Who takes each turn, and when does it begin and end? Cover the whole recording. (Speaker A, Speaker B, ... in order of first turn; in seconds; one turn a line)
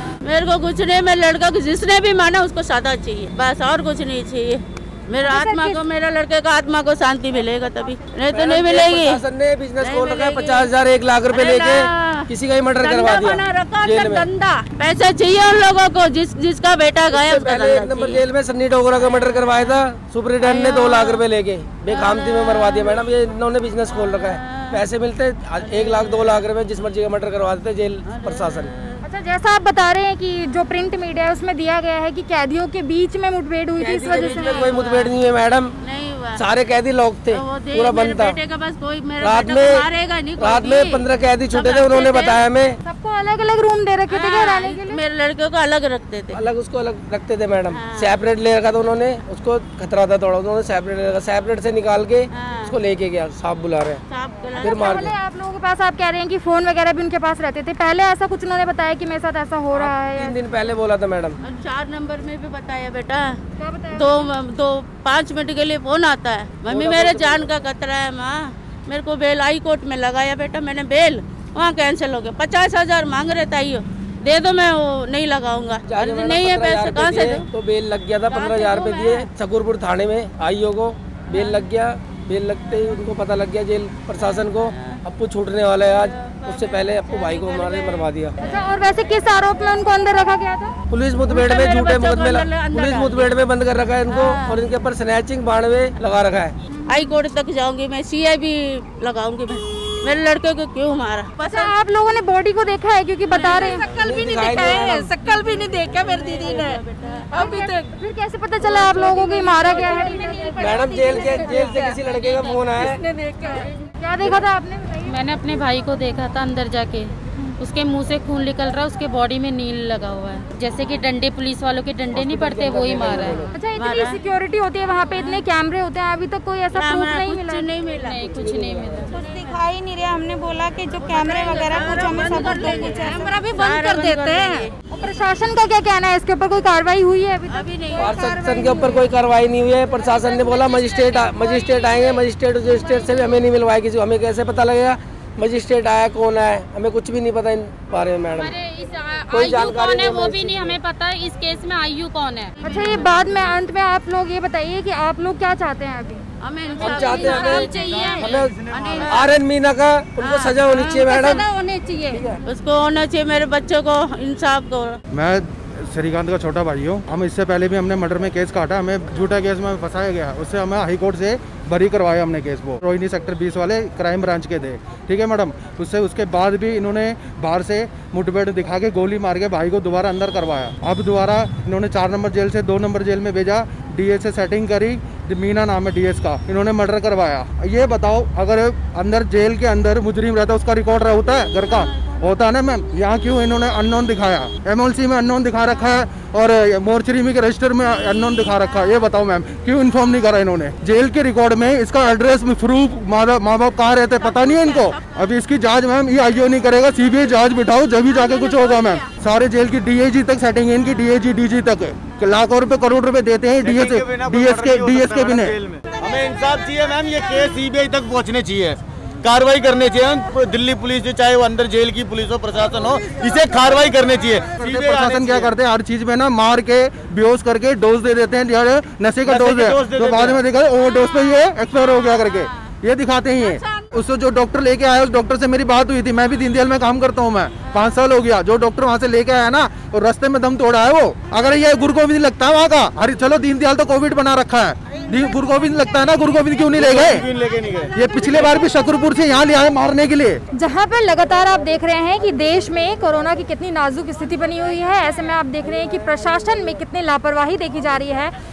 Speaker A: 0.2-9.2
Speaker B: 5.2-5.8
Speaker C: 8.3-14.3
Speaker A: 9.8-10.7
Speaker A: 11.3-12.2
Speaker A: 12.8-18.2
Speaker C: 17.1-28.7
Speaker A: 20.4-21.2
Speaker A: 21.9-23.0
Speaker A: 24.5-24.8
Speaker A: 25.6-26.4
Speaker A: 28.1-29.0
Speaker B: 29.0-34.7
Speaker C: 33.8-35.8
Speaker A: 34.2-35.1
Speaker A: 35.8-36.4
Speaker C: 36.3-38.4
Speaker A: 37.3-42.4
Speaker C: 39.2-39.8
Speaker C: 40.4-42.8
Speaker B: 42.8-45.0
Speaker A: 44.1-46.4
Speaker C: 46.3-54.0
Speaker A: 47.7-48.1
Speaker A: 52.4-52.7
Speaker A: 54.1-55.0
Speaker B: 54.6-60.4
Speaker C: 54.6-55.1
Speaker C: 59.7-61.4
Speaker A: 61.4-63.4
Speaker B: 63.6-64.3
Speaker A: 63.9-77.5
Speaker C: 66.7-67.5
Speaker C: 75.9-88.4
Speaker A: 78.3-79.3
Speaker A: 84.2-85.0
Speaker A: 85.9-88.1
Speaker B: 88.4-90.7
Speaker C: 90.9-96.5
Speaker A: 91.3-93.4
Speaker A: 94.1-94.6
Speaker B: 96.7-97.1
Speaker A: 96.9-101.7
Speaker B: 101.4-103.8
Speaker A: 103.3-107.7
Speaker D: 103.6-106.8
Speaker C: 103.9-105.0
Speaker B: 107.3-111.8
Speaker A: 108.6-109.0
Speaker D: 109.0-111.9
Speaker C: 110.6-113.0
Speaker A: 111.9-112.9
Speaker D: 113.1-113.7
Speaker B: 114.0-115.2
Speaker E: 115.0-123.4
Speaker C: 122.1-123.5
Speaker B: 123.5-127.7
Speaker A: 123.8-124.2
Speaker A: 126.7-128.4
Speaker E: 128.0-129.2
Speaker C: 128.4-128.8
Speaker D: 129.1-134.7
Speaker A: 129.1-129.6
Speaker A: 131.0-134.7
Speaker B: 134.9-139.0
Speaker A: 137.5-138.2
Speaker C: 138.0-148.6
Speaker D: 138.5-138.9
Speaker E: 148.3-152.5
Speaker C: 149.3-150.8
Speaker A: 152.6-153.2
Speaker B: 152.6-156.2
Speaker A: 156.4-159.4
Speaker C: 156.8-158.5
Speaker E: 156.8-158.4
Speaker F: 157.9-159.0
Speaker C: 159.1-161.4
Speaker A: 160.2-160.9
Speaker E: 160.7-162.2
Speaker A: 162.5-165.0
Speaker G: 165.1-215.6
Speaker A: 204.2-205.2
Speaker A: 208.1-209.1
Speaker F: 213.6-225.5
Speaker G: 224.6-247.3
Speaker F: 229.2-230.4
Speaker A: 231.9-232.5
Speaker A: 233.4-233.9
Speaker F: 246.7-247.9
Speaker G: 247.9-250.4
Speaker B: 250.5-258.3